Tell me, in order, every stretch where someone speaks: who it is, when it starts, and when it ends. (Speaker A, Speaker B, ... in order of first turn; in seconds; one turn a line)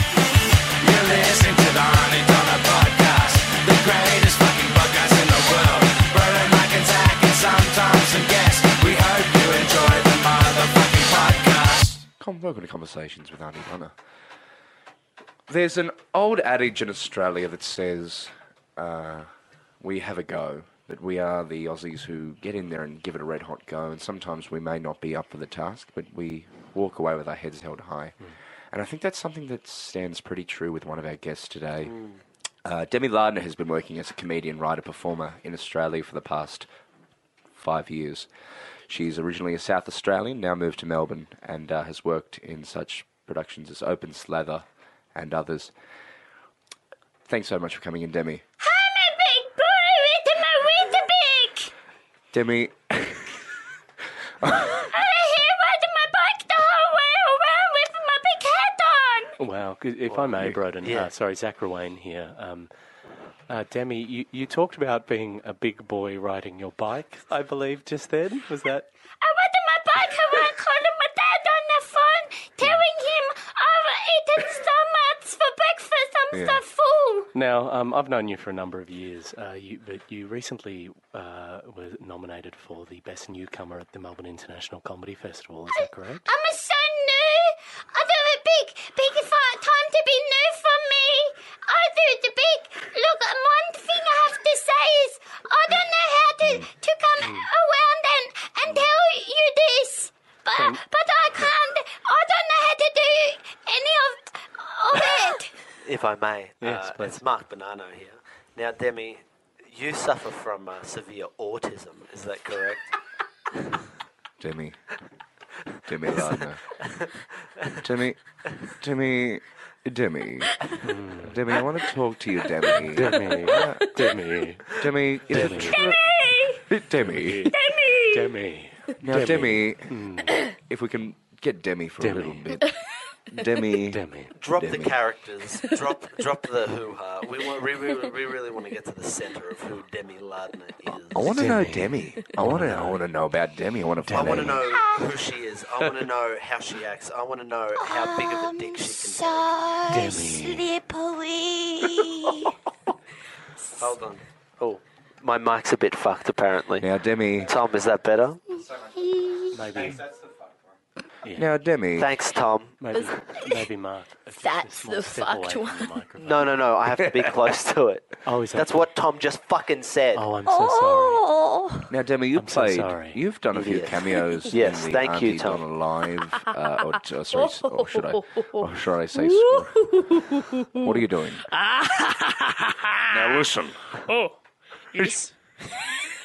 Speaker A: 0.8-12.0
Speaker B: 12.2-13.9
Speaker B: 15.5-19.3
Speaker B: 19.8-28.1
Speaker B: 28.7-32.0
Speaker B: 32.6-36.7
Speaker B: 37.5-38.3
Speaker B: 38.9-45.7
Speaker B: 47.3-48.4
Speaker C: 48.6-51.7
Speaker B: 52.3-53.4
Speaker B: 54.4-54.9
Speaker C: 54.7-59.3
Speaker D: 59.4-62.7
Speaker E: 60.8-61.1
Speaker D: 63.5-68.9
Speaker C: 69.2-77.3
Speaker B: 76.3-76.6
Speaker D: 77.3-86.2
Speaker C: 85.7-105.5
Speaker D: 97.2-97.5
Speaker D: 98.7-98.9
Speaker D: 100.5-100.8
Speaker E: 105.8-112.9
Speaker D: 106.6-107.2
Speaker B: 114.4-114.8
Speaker B: 115.8-116.6
Speaker E: 116.1-116.4
Speaker B: 117.8-124.0
Speaker D: 120.8-121.4
Speaker D: 122.9-125.8
Speaker B: 124.7-127.5
Speaker C: 125.6-126.6
Speaker D: 127.0-127.5
Speaker C: 127.5-128.3
Speaker D: 128.1-130.4
Speaker B: 129.0-132.6
Speaker D: 132.0-132.6
Speaker B: 133.3-135.0
Speaker D: 133.8-134.3
Speaker E: 134.3-141.5
Speaker B: 141.1-144.7
Speaker D: 141.2-143.0
Speaker D: 144.1-144.6
Speaker E: 144.1-149.5
Speaker C: 144.7-145.0
Speaker C: 147.8-152.5
Speaker D: 149.9-150.7
Speaker E: 153.8-156.9
Speaker B: 156.8-157.5
Speaker E: 157.4-158.6
Speaker C: 158.9-159.8
Speaker D: 159.5-160.2
Speaker D: 161.2-161.5
Speaker B: 161.3-162.1
Speaker E: 161.9-162.8
Speaker D: 162.8-166.6
Speaker C: 162.9-163.6
Speaker C: 164.3-165.9
Speaker E: 166.2-170.2
Speaker D: 168.2-168.9
Speaker D: 170.1-171.2
Speaker C: 170.4-171.9
Speaker B: 171.9-180.0
Speaker D: 172.3-173.2
Speaker E: 173.5-175.6
Speaker C: 176.4-176.8
Speaker C: 177.3-181.0
Speaker B: 180.8-181.5
Speaker C: 181.5-182.6
Speaker B: 183.1-183.7
Speaker C: 184.9-185.3